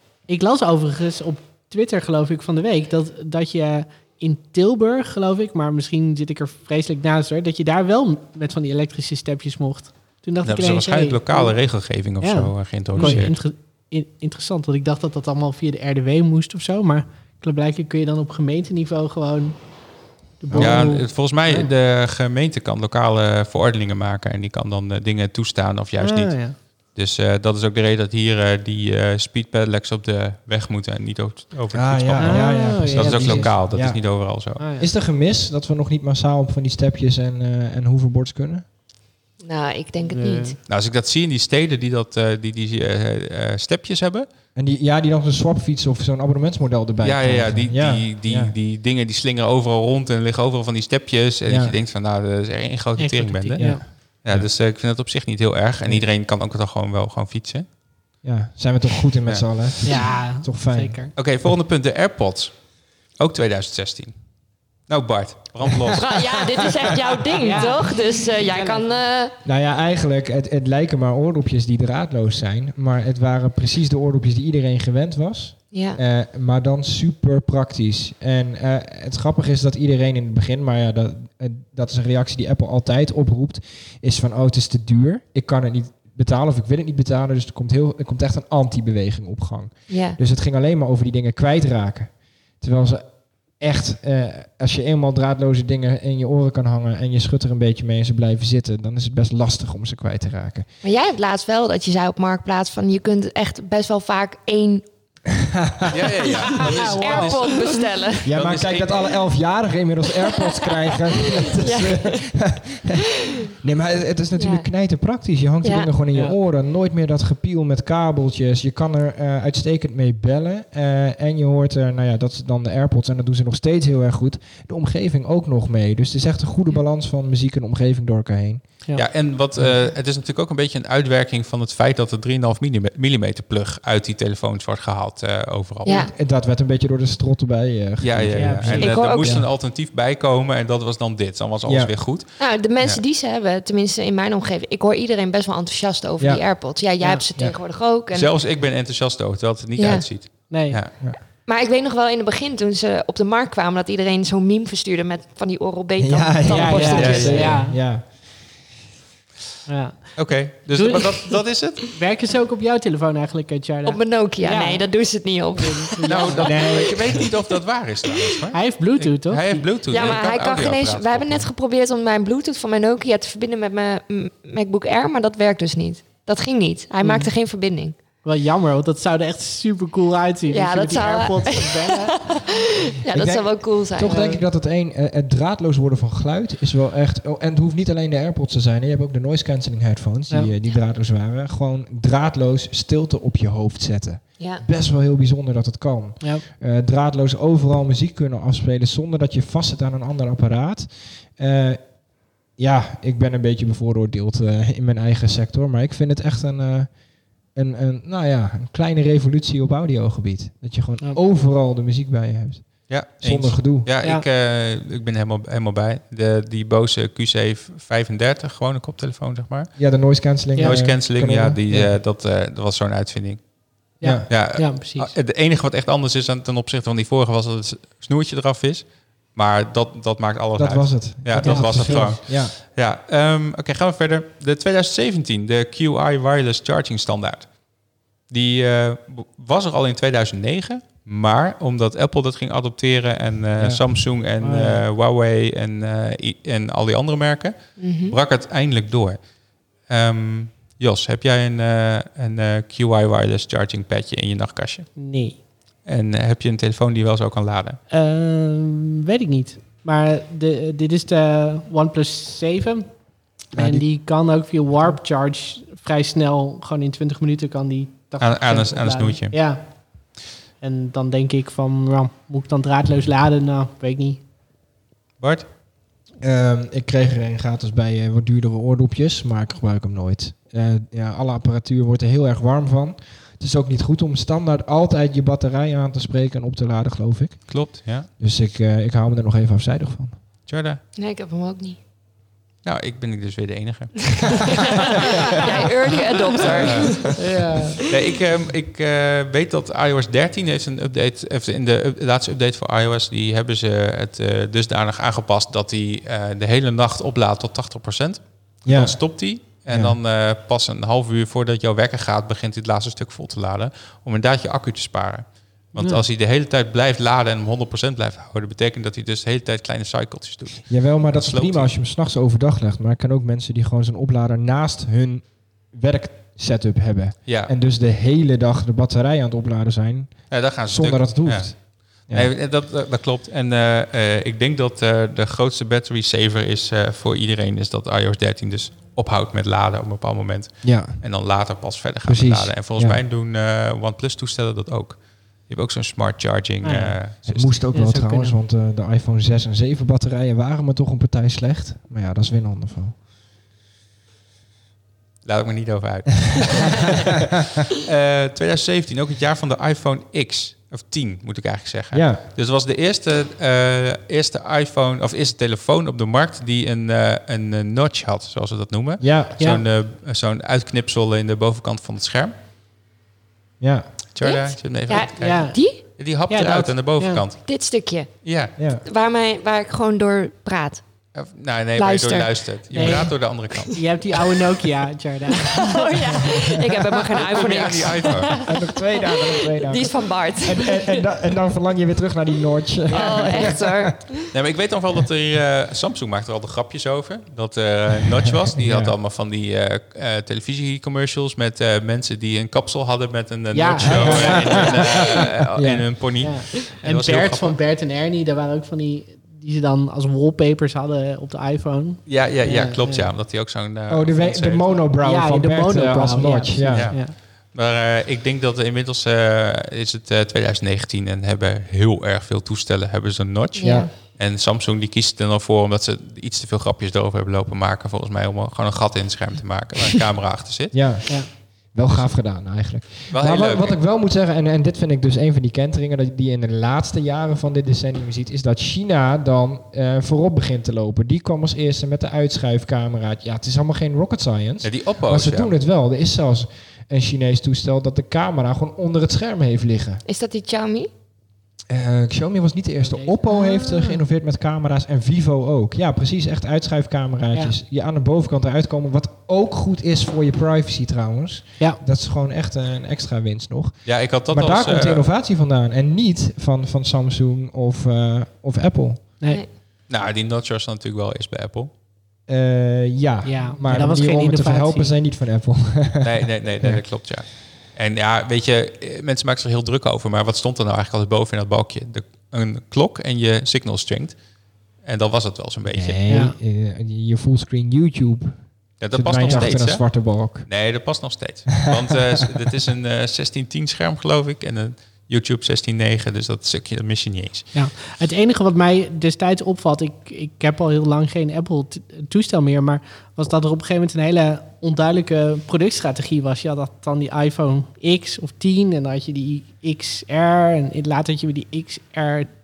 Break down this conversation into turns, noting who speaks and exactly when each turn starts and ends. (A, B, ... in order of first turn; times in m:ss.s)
0:00.3-0:11.6 A
0:10.4-0:13.4 B
0:12.2-0:19.6 A
0:13.0-0:13.3 C
0:20.4-0:21.7 A
0:20.5-0:21.0 C
0:20.6-0:34.6 B
0:26.0-0:26.6 A
0:31.7-0:38.6 C
0:32.2-0:33.6 A
0:34.6-0:34.9 A
0:39.4-0:40.6 D
0:40.1-0:40.6 A
0:40.7-0:44.3 B
0:44.6-0:48.5 C
0:47.0-0:57.7 B
0:51.5-0:51.8 C
0:53.0-0:53.9 A
0:53.6-0:54.5 C
0:58.2-1:01.5 C
0:59.8-1:01.1 A
1:01.1-1:02.6 B
1:03.1-1:04.2 B
1:04.9-1:06.2 B
1:06.0-1:09.4 D
1:07.4-1:08.8 A
1:09.4-1:40.7 C
1:15.7-1:16.0 D
1:29.9-1:30.2 D
1:40.8-1:44.8 D
1:45.3-1:46.1 C
1:45.9-1:47.6 B
1:46.5-1:47.8 A
1:46.5-1:48.3 D
1:48.2-2:08.7 C
1:48.3-1:49.0 B
1:51.1-1:52.3 D
1:54.4-1:54.7 D
1:55.6-1:55.9 D
2:09.0-2:16.0 B
2:09.6-2:09.8 C
2:15.8-2:16.1 D
2:15.9-2:19.5 C
2:18.0-2:23.0 B
2:18.4-2:18.9 A
2:18.8-2:19.4 D
2:21.6-2:22.0 C
2:22.4-2:28.3 D
2:26.2-2:26.5 C
2:28.1-2:30.9 B
2:29.8-2:30.1 D
2:30.5-2:30.8 A
2:31.4-2:37.4 D
2:36.0-2:38.5 C
2:36.5-2:37.8 A
2:36.9-2:37.6 B
2:39.7-2:44.9 A
2:40.2-2:41.8 B
2:43.8-2:46.4 D
2:45.6-2:46.6 A
2:46.1-2:51.5 B
2:46.4-2:47.3 C
2:48.5-2:50.2 A
2:49.9-2:58.0 D
2:57.0-2:57.3 A
2:58.2-3:02.4 A
3:00.5-3:04.2 D
3:03.1-3:21.8 C
3:04.0-3:04.4 A
3:16.2-3:16.5 A
3:22.6-3:26.9 C
3:27.5-3:34.0 C
3:32.9-3:43.5 B
3:39.8-3:42.0 C
3:40.6-3:41.0 A
3:44.0-3:45.1 A
3:44.0-3:44.4 C
3:44.3-3:57.5 B
3:50.6-3:52.6 C
3:51.4-3:52.2 A
3:58.3-4:09.2 B
4:03.6-4:04.0 C
4:04.4-4:04.8 A
4:07.8-4:08.2 D
4:09.9-4:14.9 B
4:15.0-4:15.4 A
4:15.8-4:17.8 B
4:17.9-4:23.0 A
4:23.5-4:23.9 C
4:23.5-4:29.8 A
4:28.2-4:29.4 B
4:30.6-4:34.2 A
4:35.2-4:35.5 B
4:36.2-4:50.2 C
4:47.5-4:48.1 B
4:50.5-4:50.8 B
4:51.0-4:51.8 D
4:52.6-4:54.7 B
4:54.5-4:57.1 D
4:56.4-4:57.2 B
4:57.2-4:57.8 A
4:57.8-5:21.7 B
5:08.6-5:09.1 C
5:09.6-5:10.0 C
5:15.8-5:16.0 A
5:20.7-5:32.3 C
5:27.3-5:27.5 B
5:30.3-5:47.6 B
5:40.6-5:41.1 C
5:42.0-5:43.0 C
5:46.6-5:47.0 A
5:46.7-5:53.0 C
5:47.7-5:48.4 A
5:55.2-6:12.4 B
6:01.9-6:02.2 C
6:09.0-6:09.4 C
6:13.6-6:14.0 C
6:14.1-6:17.4 B
6:14.2-6:15.8 D
6:15.2-6:15.6 A
6:16.3-6:17.2 A
6:17.4-6:18.2 D
6:18.2-6:18.5 B
6:18.6-6:18.8 C
6:18.8-6:20.8 D
6:21.1-6:23.8 B
6:21.8-6:23.0 D
6:22.8-6:25.9 A
6:25.4-6:31.1 D
6:26.2-6:26.7 C
6:27.2-6:28.4 B
6:27.7-6:34.0 C
6:32.9-6:33.6 A
6:32.9-6:34.3 D
6:34.3-6:47.6 B
6:38.6-6:39.0 C
6:43.5-6:44.7 A
6:43.8-6:46.1 C
6:46.2-6:53.1 A
6:52.1-6:54.8 B
6:53.9-6:57.0 C
6:55.0-6:57.1 A
6:56.7-7:11.3 B
7:03.6-7:03.9 D
7:03.6-7:03.9 C
7:10.7-7:30.0 C
7:11.8-7:12.2 B
7:13.1-7:13.8 B
7:24.6-7:25.6 B
7:30.0-7:30.9 D
7:31.7-7:49.1 C
7:32.8-7:34.0 A
7:43.9-7:45.1 B
7:49.9-7:51.7 B
7:52.3-7:56.8 C
7:53.2-7:54.9 A
7:56.0-8:04.2 B
8:04.8-8:06.2 B
8:05.7-8:10.5 C
8:06.1-8:06.3 A
8:08.8-8:17.5 B
8:09.3-8:09.5 A
8:11.5-8:12.0 C
8:17.5-8:32.3 A